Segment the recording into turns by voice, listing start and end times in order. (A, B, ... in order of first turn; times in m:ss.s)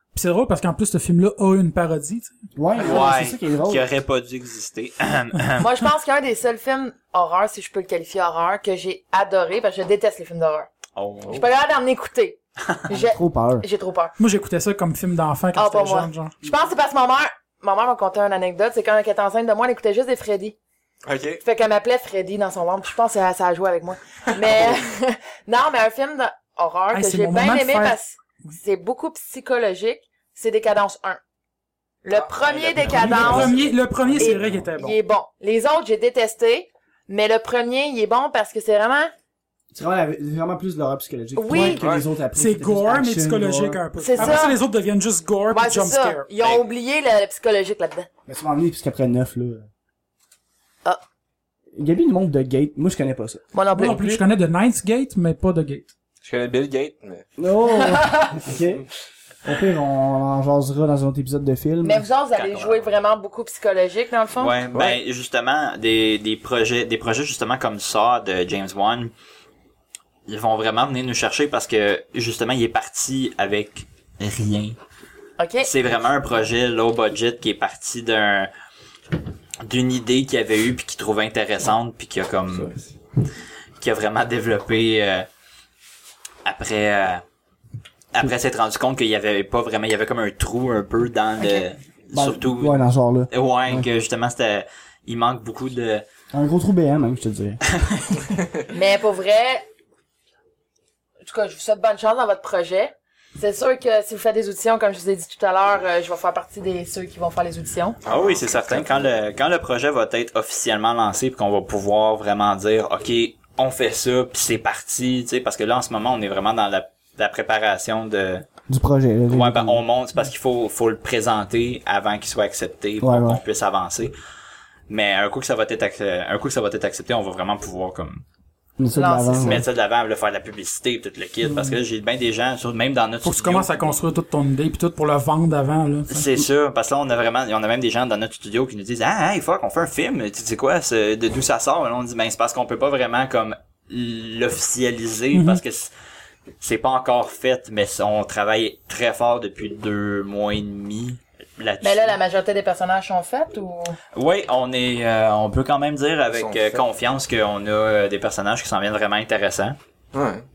0:00.1-0:02.3 A
0:02.6-0:03.8 B
0:02.8-0:05.6 C
0:05.6-0:10.7 D
0:11.0-0:11.4 C
0:11.3-0:14.1 D
0:13.0-0:13.6 B
0:14.2-0:16.4 A
0:15.6-0:20.6 D
0:21.0-0:21.4 E
0:21.4-0:31.2 D
0:24.4-0:24.8 E
0:26.9-0:28.6 A
0:32.0-0:33.6 D
0:32.1-0:33.7 E
0:32.5-0:34.1 C
0:32.8-0:35.0 A
0:34.2-0:39.1 D
0:39.7-0:44.4 B
0:41.4-0:41.9 D
0:41.5-0:42.1 E
0:42.3-0:46.3 A
0:44.0-0:44.6 D
0:45.5-0:48.1 D
0:48.3-0:49.7 B
0:51.8-0:53.4 B
0:53.5-0:54.0 D
0:53.8-0:55.9 A
0:53.8-0:54.2 E
0:56.2-0:57.3 E
0:57.4-0:58.9 B
0:57.7-0:58.4 D
0:59.4-1:02.1 B
1:01.8-1:04.6 D
1:02.3-1:02.9 C
1:04.4-1:09.1 C
1:10.3-1:14.8 C
1:15.4-1:15.7 D
1:15.6-1:18.5 C
1:19.6-1:22.7 C
1:23.8-1:25.3 C
1:26.4-1:27.2 C
1:28.1-1:36.0 C
1:32.1-1:33.9 B
1:36.3-1:37.6 B
1:37.7-1:38.3 C
1:38.7-1:39.7 D
1:41.2-1:48.0 D
1:48.1-1:49.1 E
1:48.1-1:58.5 C
1:58.7-1:59.8 B
1:59.3-2:04.2 C
2:03.0-2:03.4 B
2:04.9-2:08.2 C
2:08.8-2:09.7 B
2:08.9-2:09.6 D
2:09.4-2:14.0 C
2:11.5-2:11.8 A
2:13.2-2:16.3 A
2:16.1-2:25.9 C
2:25.3-2:25.6 A
2:26.6-2:32.2 C
2:31.8-2:34.0 D
2:34.2-2:39.8 C
2:36.3-2:36.8 E
2:40.1-2:40.4 E